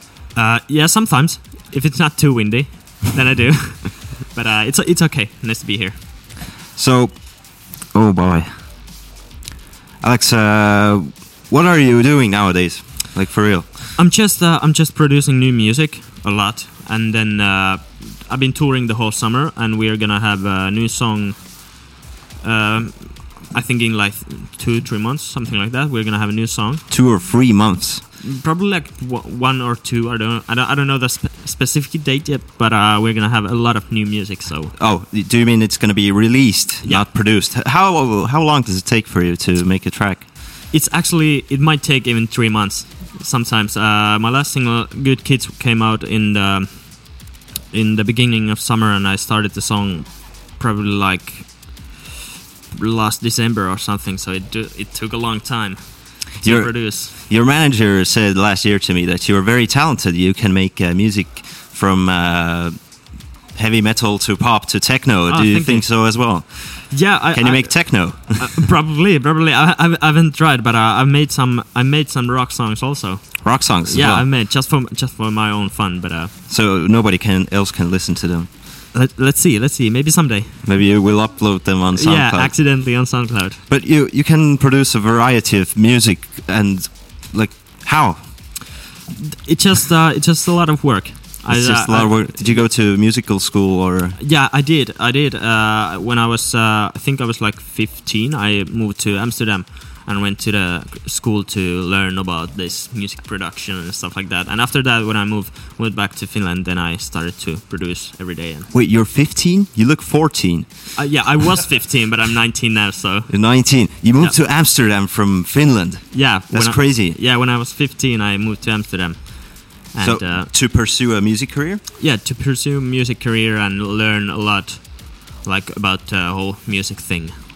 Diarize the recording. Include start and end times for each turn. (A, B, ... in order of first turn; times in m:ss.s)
0:00.3-0:06.0 A
0:06.7-0:08.5 B
0:10.0-0:13.9 B
0:14.0-0:21.9 A
0:22.4-0:26.8 A
0:26.9-0:28.0 B
0:28.2-0:34.8 A
0:34.8-0:40.2 B
0:40.7-0:52.0 A
0:52.7-0:57.1 A
0:56.4-1:08.6 B
1:05.3-1:16.3 A
1:13.4-1:14.3 B
1:16.5-1:18.5 B
1:18.9-1:20.7 A
1:20.6-1:23.1 B
1:21.9-1:23.6 A
1:23.7-1:28.3 B
1:29.4-1:32.7 A
1:31.5-1:34.2 B
1:34.2-1:48.7 A
1:48.7-1:50.9 B
1:51.0-1:54.4 A
1:53.3-1:57.2 B
1:56.1-2:00.5 A
2:00.0-2:01.8 B
2:02.0-2:07.3 A